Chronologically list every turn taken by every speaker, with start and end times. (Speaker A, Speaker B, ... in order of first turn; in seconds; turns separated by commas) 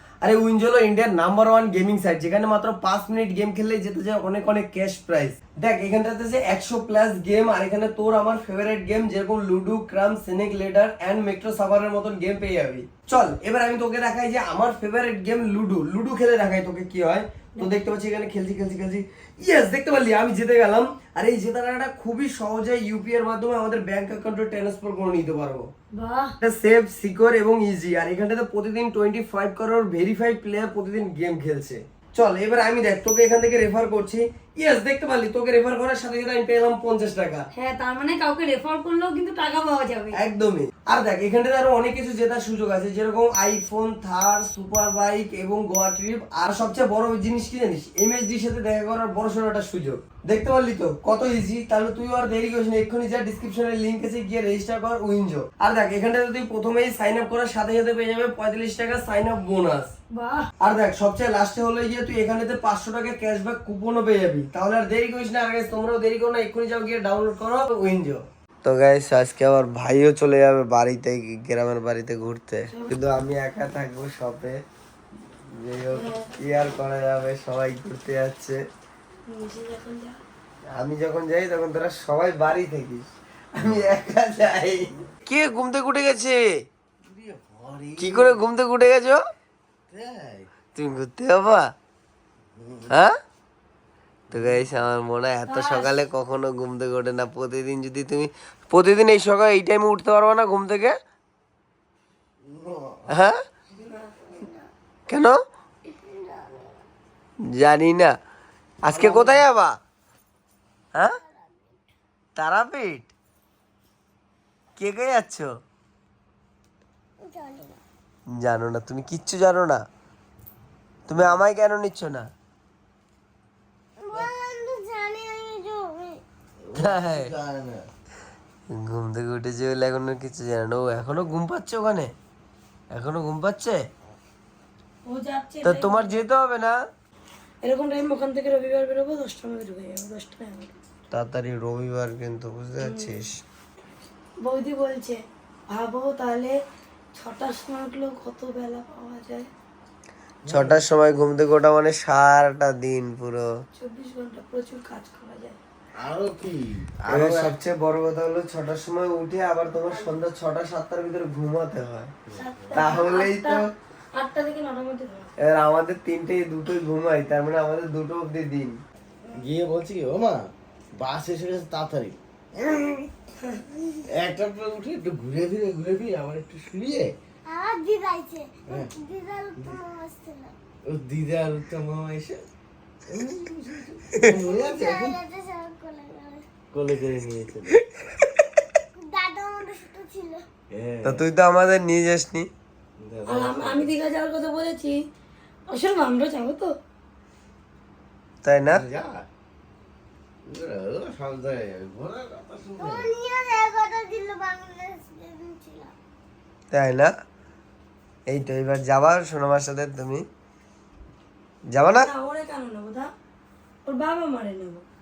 Speaker A: 0.2-25.7, Speaker B: 25.9-26.3, Speaker A: 26.4-37.5, Speaker B: 37.5-40.2, Speaker A: 40.1-59.9, Speaker B: 60.1-60.5, Speaker A: 60.6-74.6, Speaker B: 72.7-73.0, Speaker A: 75.5-78.6, Speaker B: 75.9-76.3, Speaker B: 79.3-80.2, Speaker A: 80.7-86.5, Speaker C: 87.0-88.4, Speaker A: 88.0-89.2, Speaker C: 89.9-90.5, Speaker A: 90.7-91.7, Speaker C: 92.5-92.9, Speaker C: 94.3-94.6, Speaker A: 94.3-101.0, Speaker B: 95.5-96.0, Speaker C: 102.4-103.1, Speaker A: 103.1-103.4, Speaker D: 104.3-104.7, Speaker A: 105.1-105.4, Speaker D: 105.9-106.6, Speaker A: 107.5-108.1, Speaker A: 108.8-109.8, Speaker C: 108.9-109.4, Speaker D: 111.3-111.6, Speaker A: 112.3-113.1, Speaker A: 114.8-115.5, Speaker D: 117.2-117.8, Speaker A: 118.4-119.8, Speaker A: 121.1-122.3, Speaker C: 121.1-121.4, Speaker D: 124.0-126.2, Speaker C: 126.6-127.8, Speaker A: 126.8-127.3, Speaker A: 128.7-132.1, Speaker A: 132.9-133.8, Speaker B: 135.1-136.2, Speaker A: 135.6-136.8, Speaker B: 137.6-140.8, Speaker A: 141.1-143.3, Speaker B: 142.8-143.1, Speaker B: 144.4-146.6, Speaker B: 147.1-149.5, Speaker C: 150.4-150.8, Speaker A: 150.5-153.4, Speaker B: 153.8-155.6, Speaker C: 155.9-157.6, Speaker A: 157.1-162.1, Speaker C: 162.3-162.9, Speaker B: 162.3-163.6, Speaker A: 162.7-163.6, Speaker B: 164.1-165.3, Speaker A: 165.4-168.8, Speaker C: 169.4-170.4, Speaker C: 171.0-173.1, Speaker C: 174.1-177.1, Speaker D: 177.4-180.5, Speaker C: 180.9-182.4, Speaker C: 183.1-185.2, Speaker D: 184.2-186.4, Speaker C: 186.7-187.8, Speaker A: 188.0-188.4, Speaker D: 188.9-190.5, Speaker C: 190.7-191.2, Speaker A: 191.0-192.5, Speaker C: 193.0-193.9, Speaker B: 193.3-195.0, Speaker B: 195.7-196.7, Speaker A: 198.4-198.8, Speaker C: 198.7-199.2, Speaker C: 200.4-203.1, Speaker D: 202.8-205.9, Speaker A: 206.7-207.1, Speaker A: 208.3-210.2, Speaker A: 211.7-212.1, Speaker B: 211.8-213.1, Speaker B: 213.8-214.8